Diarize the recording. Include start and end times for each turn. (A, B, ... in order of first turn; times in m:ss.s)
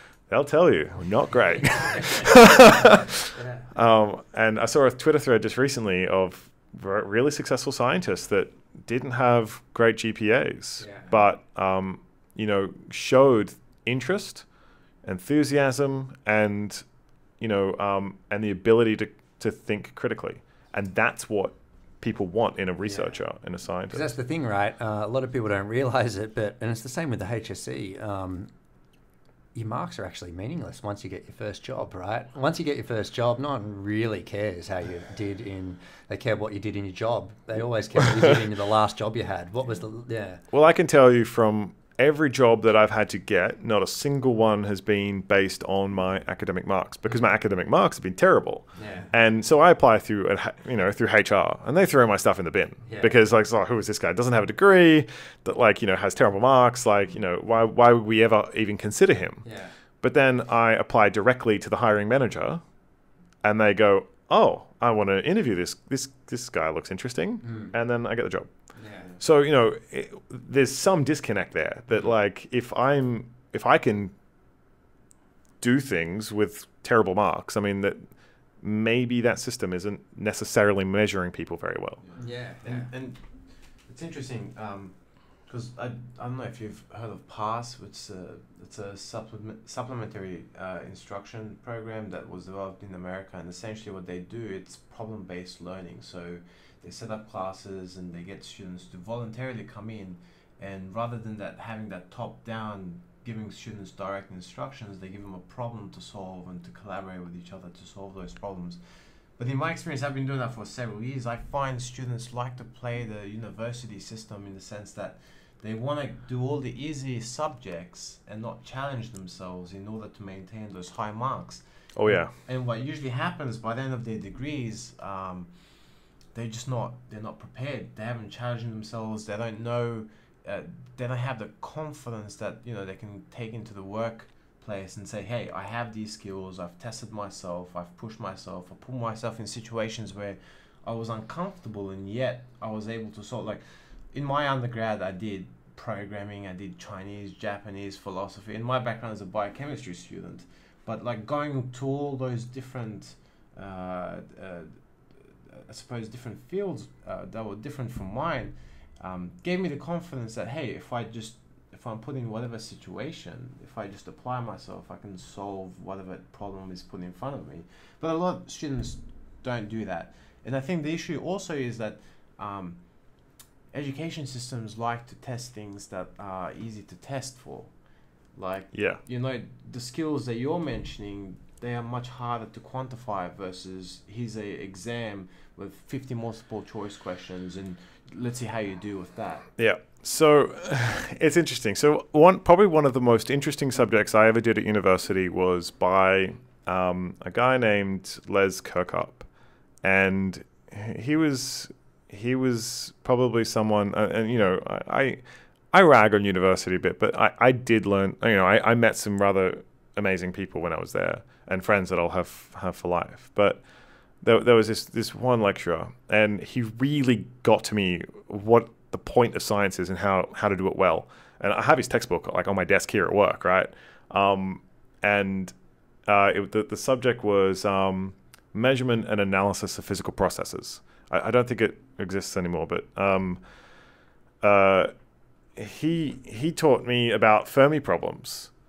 0:00.3-0:14.4 A
0:01.6-0:03.7 B
0:10.8-0:11.1 B
0:15.0-0:16.8 A
0:17.4-0:24.1 A
0:22.8-0:23.2 B
0:23.9-0:28.5 B
0:29.5-0:40.4 B
0:40.5-0:59.5 A
0:48.8-0:49.1 B
0:52.8-0:53.2 B
0:59.4-0:59.7 B
1:00.0-1:02.6 A
1:03.4-1:08.5 A
1:07.4-1:07.7 B
1:08.8-1:09.1 B
1:09.2-1:14.1 A
1:15.6-1:22.0 A
1:22.0-3:09.5 C
1:22.2-1:22.9 B
2:01.9-2:02.3 A
2:58.7-2:59.0 A
3:09.6-3:19.3 A
3:19.8-3:25.2 A
3:25.7-3:33.6 A
3:34.2-3:45.5 A
3:46.1-3:53.4 A
3:54.4-3:54.9 A
3:55.6-3:58.5 A